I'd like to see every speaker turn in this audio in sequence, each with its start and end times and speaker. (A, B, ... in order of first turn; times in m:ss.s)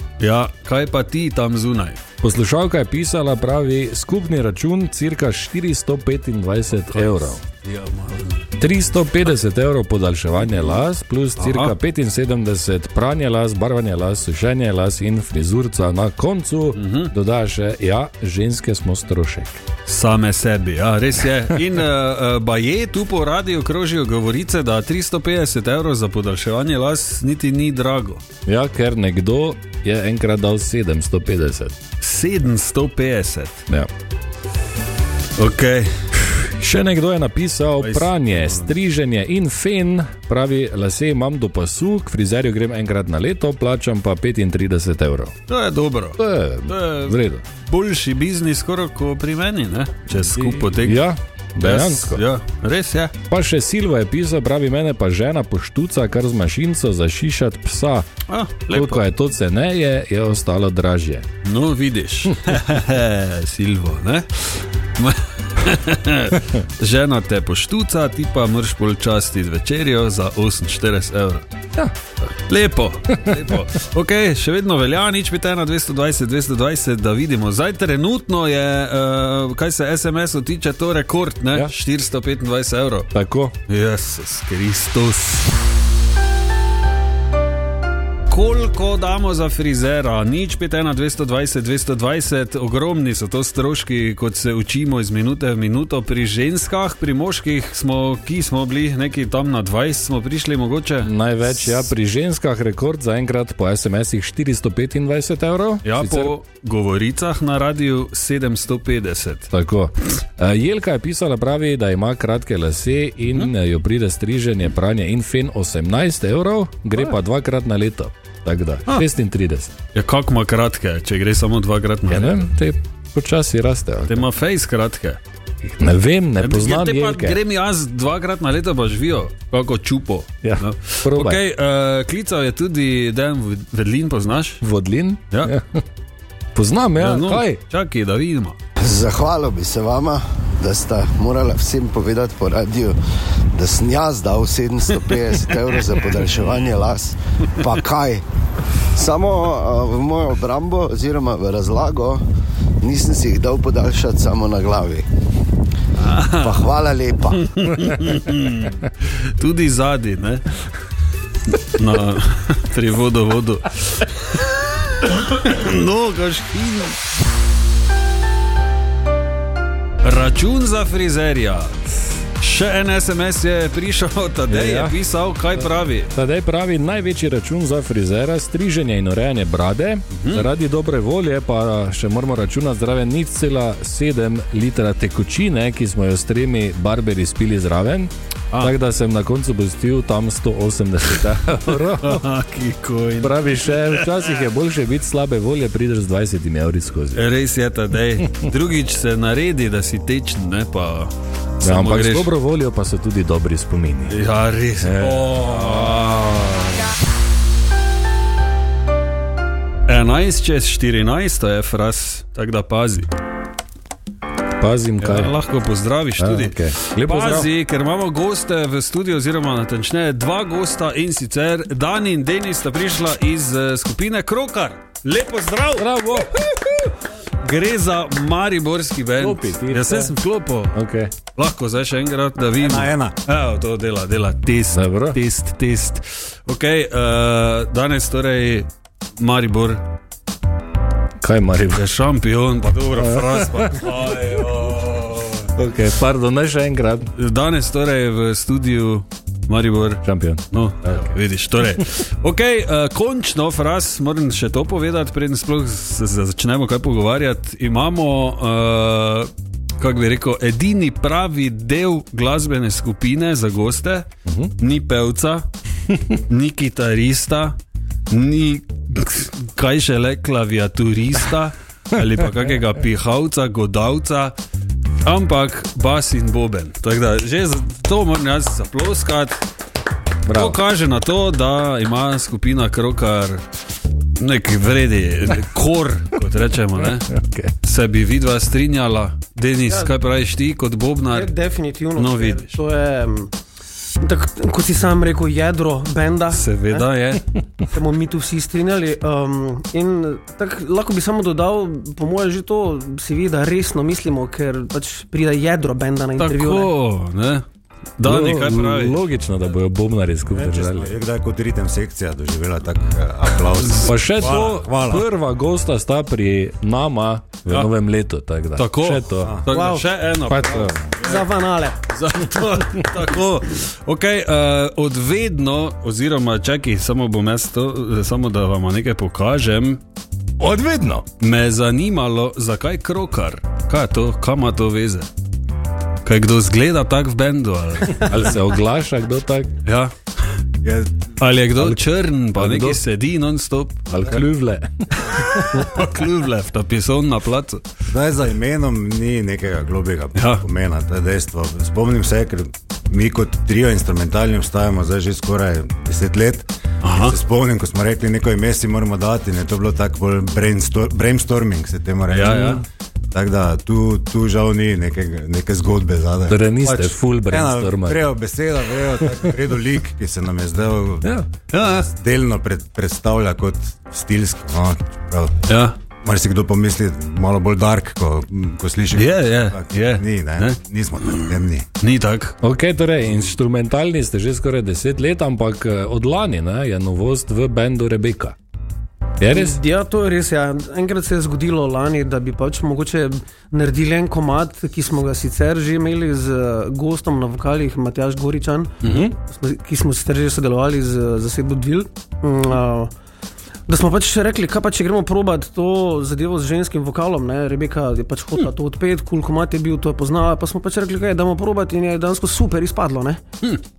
0:00.2-0:02.0 A
0:02.2-0:07.4 B
0:06.9-0:08.5 A
0:08.6-0:19.6 B
0:11.4-0:11.7 A
0:16.8-0:17.1 A
0:19.9-0:28.2 A
0:28.5-0:31.8 B
0:32.0-0:33.6 A
0:35.4-0:36.0 A
0:36.2-0:45.4 B
0:37.8-0:38.7 A
0:45.5-0:51.1 A
0:46.2-0:47.4 B
0:50.1-0:52.2 B
0:51.6-0:53.1 A
0:53.3-0:58.1 B
0:58.3-0:59.0 A
0:58.7-1:01.3 B
1:01.4-1:11.4 A
1:12.5-1:23.1 A
1:23.1-1:23.6 B
1:23.7-1:25.5 A
1:28.3-1:41.9 A
1:41.0-1:46.3 B
1:45.8-1:49.5 A
1:49.5-1:59.8 B
2:00.0-2:02.4 A
2:02.1-2:04.3 B
2:04.1-2:05.2 A
2:05.7-2:07.4 B
2:06.4-2:14.6 A
2:10.4-2:11.4 B
2:14.6-2:15.8 B
2:16.6-2:17.6 B
2:17.0-2:18.6 A
2:18.8-2:23.0 C
2:23.5-2:28.2 C
2:29.0-2:32.2 C
2:32.8-2:35.1 C
2:36.0-2:36.6 A
2:36.4-2:37.4 C
2:37.4-2:40.5 A
2:41.5-2:44.5 A
2:45.0-2:47.0 A
2:50.0-2:51.8 A
2:52.4-2:56.1 A
2:54.5-2:55.0 B
2:56.1-3:12.2 B
3:00.2-3:00.5 A
3:11.8-3:14.3 A
3:13.2-3:17.3 B
3:17.2-3:22.3 A
3:21.6-3:24.2 B
3:24.1-3:26.9 A
3:24.8-3:26.8 B
3:29.9-3:33.1 A
3:34.6-3:35.4 B
3:35.0-3:46.0 A
3:36.2-3:37.5 B
3:45.8-3:46.7 B
3:47.4-3:50.8 A
3:49.2-3:50.1 B
3:50.7-3:51.2 B
3:51.4-3:59.8 A
3:52.6-3:53.1 D
3:54.7-3:55.2 B
4:01.2-4:01.9 B
4:01.8-4:05.5 A
4:03.0-4:03.8 B
4:05.6-4:07.1 B
4:07.2-4:24.1 A
4:10.0-4:11.1 B
4:24.3-4:24.5 B
4:24.6-4:25.5 A
4:25.9-4:26.2 B
4:26.2-4:27.6 A
4:28.1-4:34.4 A
4:35.0-4:39.4 A
4:40.3-4:40.6 B
4:40.3-4:43.4 A
4:44.2-4:51.3 A
4:46.8-4:47.5 B
4:51.1-4:53.3 E
4:52.0-4:52.6 A
4:54.0-4:56.9 E
4:56.3-4:57.2 A
4:57.7-5:06.7 E
5:06.2-5:07.4 A
5:08.0-5:09.0 A
5:08.0-5:11.0 B
5:10.3-5:15.1 D
5:13.5-5:13.9 A
5:13.8-5:19.4 B
5:18.6-5:21.3 A
5:19.2-5:19.5 D
5:19.5-5:19.9 E
5:20.3-5:20.9 B
5:21.0-5:21.8 E
5:21.9-5:29.8 A
5:30.4-5:31.1 B
5:31.2-5:35.1 A
5:36.0-5:38.4 A
5:38.0-5:39.5 B
5:39.6-5:39.9 A
5:40.6-5:41.1 D
5:41.2-5:44.2 A
5:42.4-5:42.8 B
5:43.9-5:45.6 B
5:45.1-5:47.6 A
5:47.9-6:11.1 D
5:50.2-5:50.4 A
5:56.8-5:57.2 A
6:02.1-6:02.6 A
6:06.3-6:08.0 B
6:09.0-6:09.3 B
6:11.5-6:11.9 A
6:11.6-6:15.4 D
6:15.5-6:15.8 A
6:16.0-6:21.7 D
6:19.0-6:22.4 A
6:22.4-6:28.4 B
6:29.2-6:29.6 B
6:29.3-6:42.9 E
6:38.8-6:39.2 B
6:43.7-6:53.2 E